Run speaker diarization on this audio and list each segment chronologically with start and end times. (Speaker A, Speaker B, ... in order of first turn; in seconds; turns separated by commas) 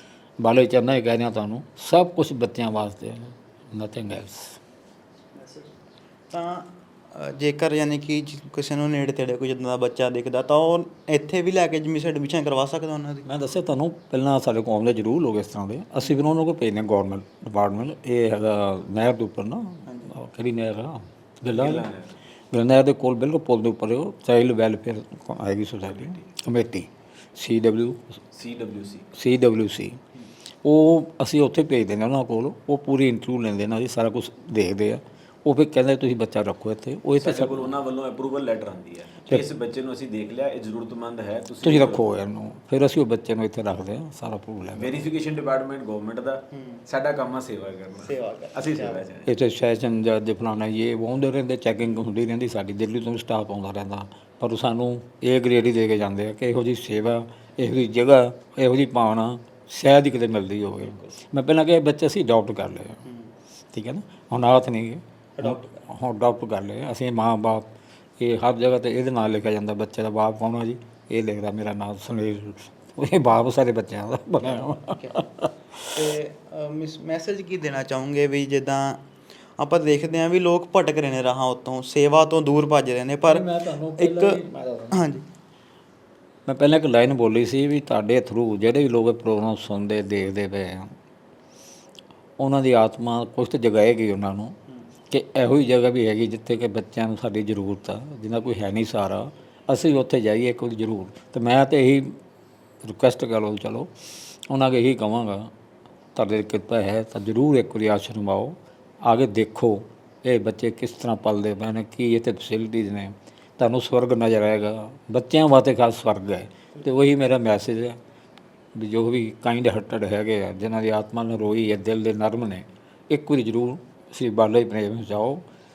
Speaker A: 0.4-4.6, Speaker B: 5.4-5.7, Speaker B: 6.3-13.3, Speaker A: 13.2-21.9, Speaker B: 19.9-20.1, Speaker C: 21.5-22.1, Speaker A: 22.5-28.2, Speaker C: 26.0-26.2, Speaker C: 28.3-29.1, Speaker A: 29.1-30.0, Speaker A: 30.6-37.7, Speaker C: 37.1-42.0, Speaker A: 41.6-45.1, Speaker C: 44.8-49.3, Speaker B: 46.5-46.8, Speaker B: 48.0-49.1, Speaker A: 49.2-63.0, Speaker B: 63.0-63.3, Speaker A: 63.7-75.9, Speaker B: 65.4-65.8, Speaker B: 74.8-75.2, Speaker B: 75.9-79.0, Speaker B: 79.6-83.5, Speaker A: 83.2-85.1, Speaker B: 84.0-84.4, Speaker B: 84.9-85.2, Speaker A: 86.5-90.9, Speaker A: 92.4-94.5, Speaker A: 95.1-102.1, Speaker A: 102.8-103.9, Speaker A: 104.5-105.5, Speaker A: 106.2-118.0, Speaker A: 118.8-125.4